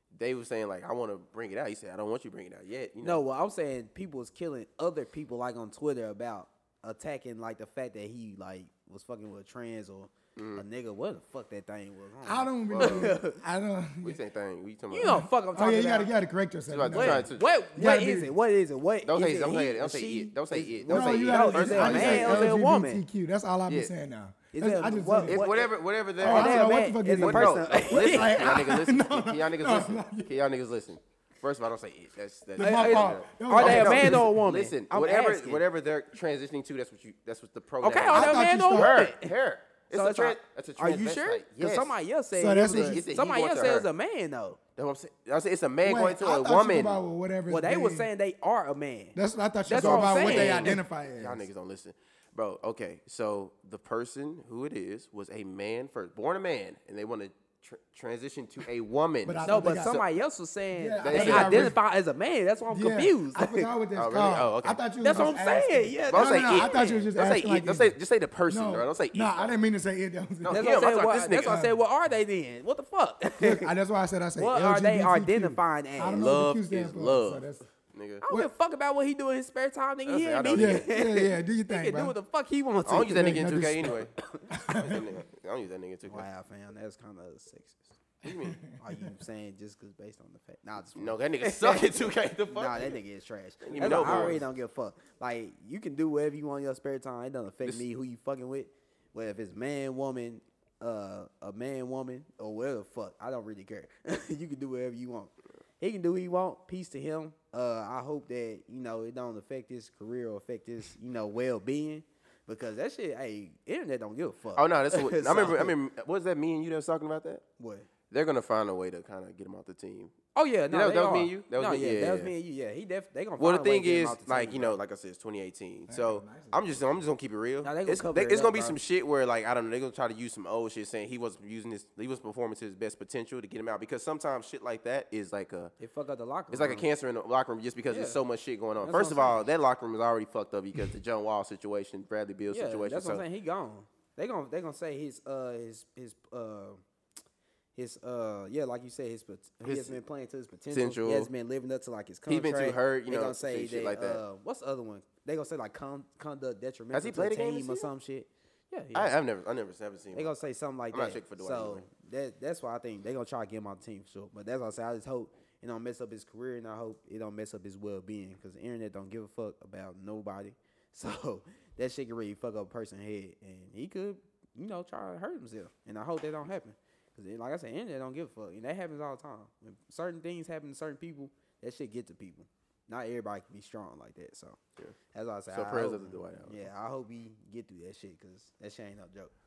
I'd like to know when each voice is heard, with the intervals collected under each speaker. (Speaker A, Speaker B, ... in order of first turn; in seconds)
Speaker A: 0.2-3.2, 10.4-10.6, 12.7-13.2, 14.0-15.2, 16.7-17.5, 19.1-22.5, 25.3-42.0, 42.7-43.9, 44.8-47.0, 49.7-60.1, 61.0-61.8, 64.0-64.8, 66.1-69.5, 70.4-71.7, 76.2-78.2, 80.1-80.9, 82.9-84.1, 84.7-86.3, 88.2-88.6, 91.0-93.0, 93.6-94.4, 114.6-117.4, 118.1-120.2, 120.7-122.3, 123.4-135.7, 136.5-143.2, 149.6-150.0, 150.7-151.3, 152.3-154.2, 156.9-157.9, 158.9-160.3, 160.9-161.9, 185.5-186.6
Speaker B: 3.0-13.4, 14.9-16.1, 16.9-23.0, 24.5-25.7, 26.2-28.6, 32.6-35.6, 37.8-39.3, 39.9-44.6, 47.5-49.2, 49.7-50.8, 59.4-63.7, 65.0-67.1, 70.5-73.7, 74.4-76.3, 78.2-84.7, 86.1-88.0, 88.8-115.8, 117.6-117.9, 120.3-124.8, 127.6-128.8, 135.8-136.9, 137.9-138.2, 138.8-139.5, 142.5-146.8, 147.8-159.2, 160.1-184.6, 185.1-189.3
Speaker C: 12.2-14.2, 15.0-18.3, 20.9-25.5, 26.2-30.4, 32.6-34.4, 38.1-39.0, 42.3-43.0, 45.8-48.1, 49.1-51.5, 59.2-60.0, 60.7-61.8, 62.7-68.0, 68.5-70.7, 71.4-71.8, 73.4-77.6, 80.5-82.2, 83.1-84.0, 84.5-85.0, 88.3-89.1, 93.8-94.4, 125.9-127.0